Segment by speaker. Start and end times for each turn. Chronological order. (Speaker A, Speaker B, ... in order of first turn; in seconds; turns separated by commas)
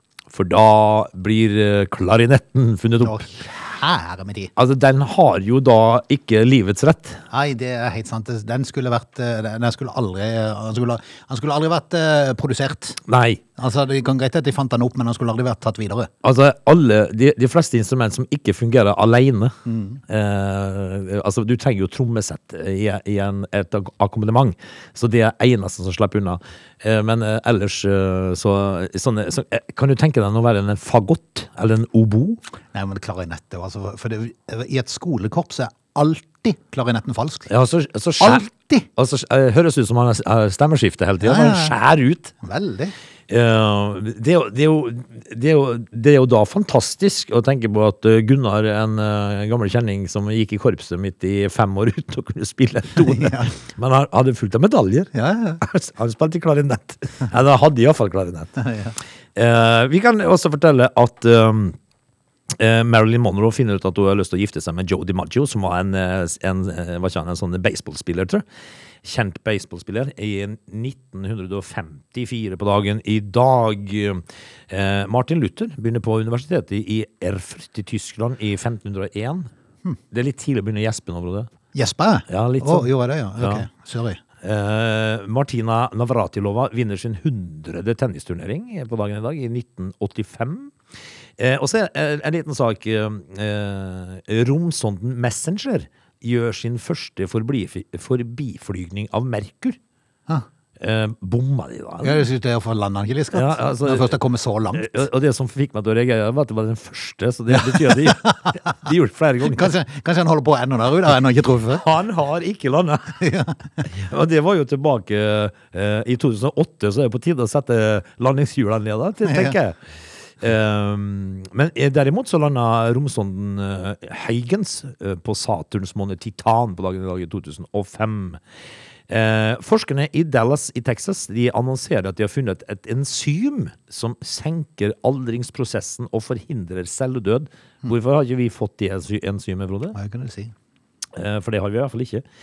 Speaker A: 0.3-3.3, Speaker B: 3.0-4.5, Speaker A: 4.5-7.2, Speaker B: 7.3-13.0, Speaker A: 13.0-13.4, Speaker B: 13.6-16.1, Speaker A: 16.2-19.5, Speaker B: 19.6-20.0, Speaker A: 20.1-32.4, Speaker B: 32.7-37.5, Speaker A: 37.5-42.3, Speaker B: 38.2-38.9, Speaker B: 41.2-41.8, Speaker B: 42.4-42.9, Speaker A: 43.3-58.6, Speaker B: 53.0-53.5, Speaker B: 55.1-55.6, Speaker B: 58.6-59.0, Speaker A: 59.3-61.8, Speaker A: 62.5-68.4, Speaker A: 69.0-79.5, Speaker A: 80.1-81.5, Speaker B: 81.7-84.2, Speaker A: 82.3-83.7, Speaker A: 84.4-90.7, Speaker A: 91.4-99.8, Speaker A: 100.8-102.2, Speaker B: 102.0-105.0, Speaker A: 103.3-104.2, Speaker A: 104.7-109.7, Speaker B: 107.5-108.8, Speaker B: 109.4-111.8, Speaker A: 111.7-113.2, Speaker B: 113.2-113.8, Speaker A: 113.8-119.8, Speaker B: 119.2-119.6, Speaker A: 120.4-128.4, Speaker A: 129.1-139.9, Speaker B: 139.9-140.5, Speaker A: 141.1-142.2